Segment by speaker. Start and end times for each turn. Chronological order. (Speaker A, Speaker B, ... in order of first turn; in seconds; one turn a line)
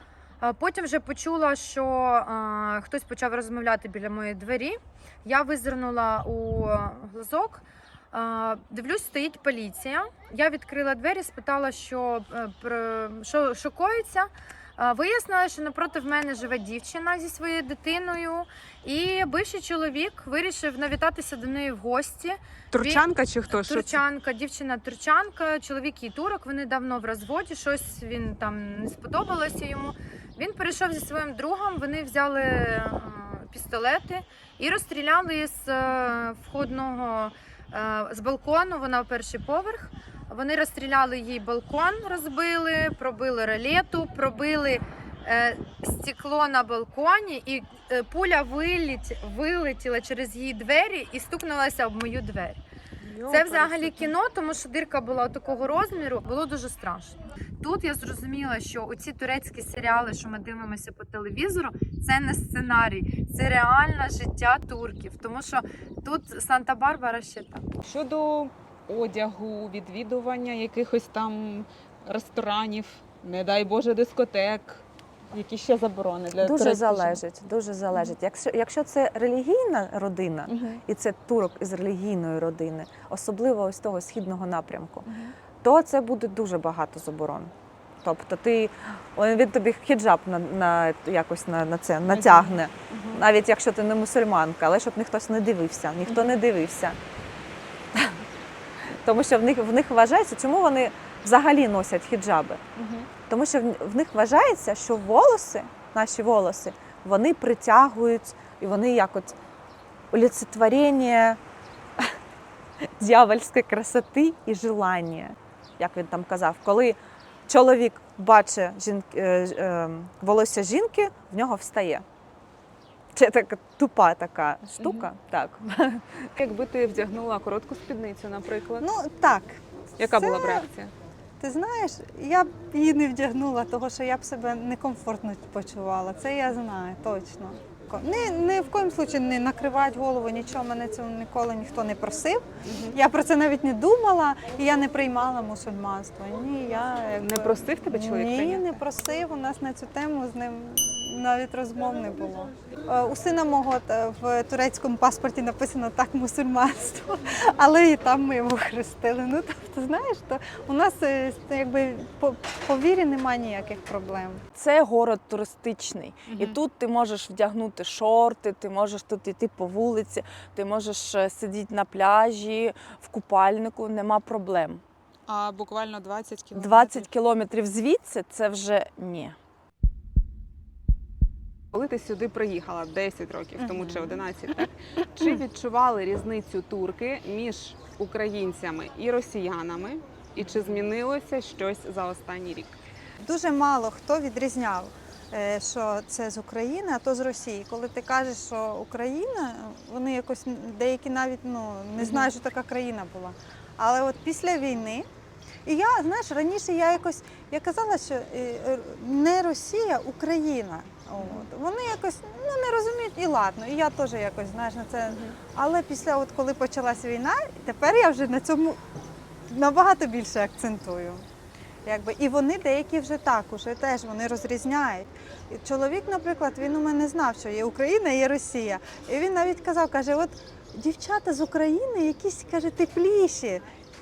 Speaker A: 0.4-52.6
Speaker B: 22.7-24.0
Speaker B: 53.0-54.1
Speaker A: 53.3-67.7
Speaker B: 67.8-77.2
Speaker C: 76.4-85.1
Speaker B: 80.5-80.8
Speaker B: 85.1-85.3
Speaker C: 85.6-97.0
Speaker B: 92.1-93.2
Speaker B: 96.1-96.3
Speaker C: 97.9-98.2
Speaker C: 99.0-102.6
Speaker B: 102.8-103.1
Speaker C: 103.2-109.4
Speaker C: 110.1-111.4
Speaker C: 112.8-122.0
Speaker C: 123.1-126.3
Speaker B: 124.8-125.1
Speaker B: 126.4-128.9
Speaker D: 128.8-130.7
Speaker B: 130.0-130.9
Speaker D: 131.4-164.4
Speaker B: 142.7-143.0
Speaker B: 147.2-148.8
Speaker E: 164.5-174.8
Speaker B: 166.3-166.6
Speaker B: 175.3-177.1
Speaker E: 176.6-179.4
Speaker B: 181.7-192.8
Speaker D: 183.6-184.3
Speaker D: 193.2-205.1
Speaker B: 202.0-202.3
Speaker D: 205.7-218.8
Speaker B: 211.2-211.5
Speaker B: 215.1-215.4
Speaker D: 219.5-221.3
Speaker D: 221.8-233.7